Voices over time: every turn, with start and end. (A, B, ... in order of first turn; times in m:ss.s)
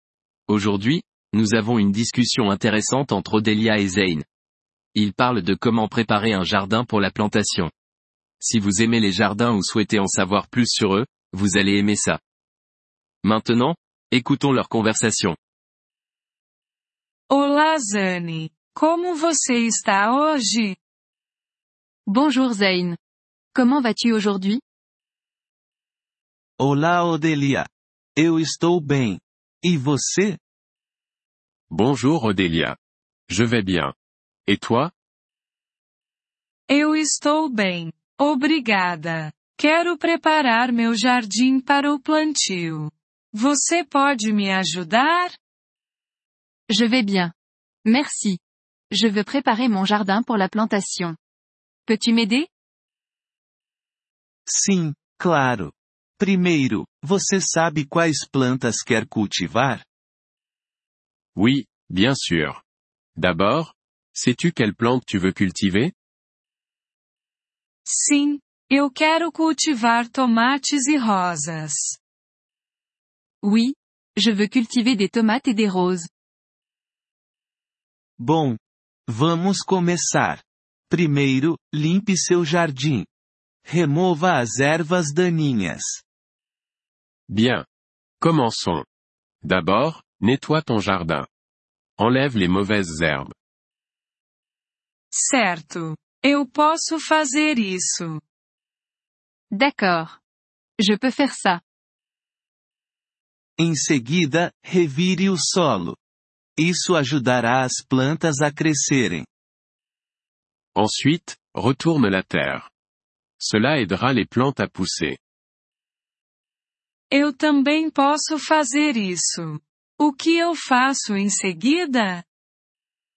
0:00.5-0:04.2 A
0:05.0-0:07.7 A
0:08.4-0:12.2 A
0:13.2-0:15.4 A
0:17.3-0:20.8 B
0:22.1-0:23.0 C
0:23.5-0:24.6 C
0:26.6-0:30.4 D
0:31.7-0:32.8 E
0:33.3-0:33.9 E
0:34.5-0:34.9 E
0:36.7-0:45.4 B
0:46.7-0:47.3 C
0:47.8-0:48.4 C
0:48.9-0:51.2 C
0:51.9-0:52.5 C
0:54.5-0:59.8 D
1:01.4-1:02.6 E
1:03.2-1:05.9 E
1:07.9-1:12.0 B
1:13.4-1:16.1 C
1:18.2-1:23.1 D
1:23.6-1:26.0 D
1:27.3-1:27.6 E
1:28.2-1:28.9 E
1:29.4-1:31.3 E
1:32.0-1:33.3 E
1:35.1-1:38.2 B
1:39.5-1:40.2 C
1:40.8-1:41.6 C
1:43.6-1:46.0 D
1:46.6-1:49.3 D
1:50.8-1:52.7 E
1:53.4-1:55.2 E
1:57.1-2:02.2 B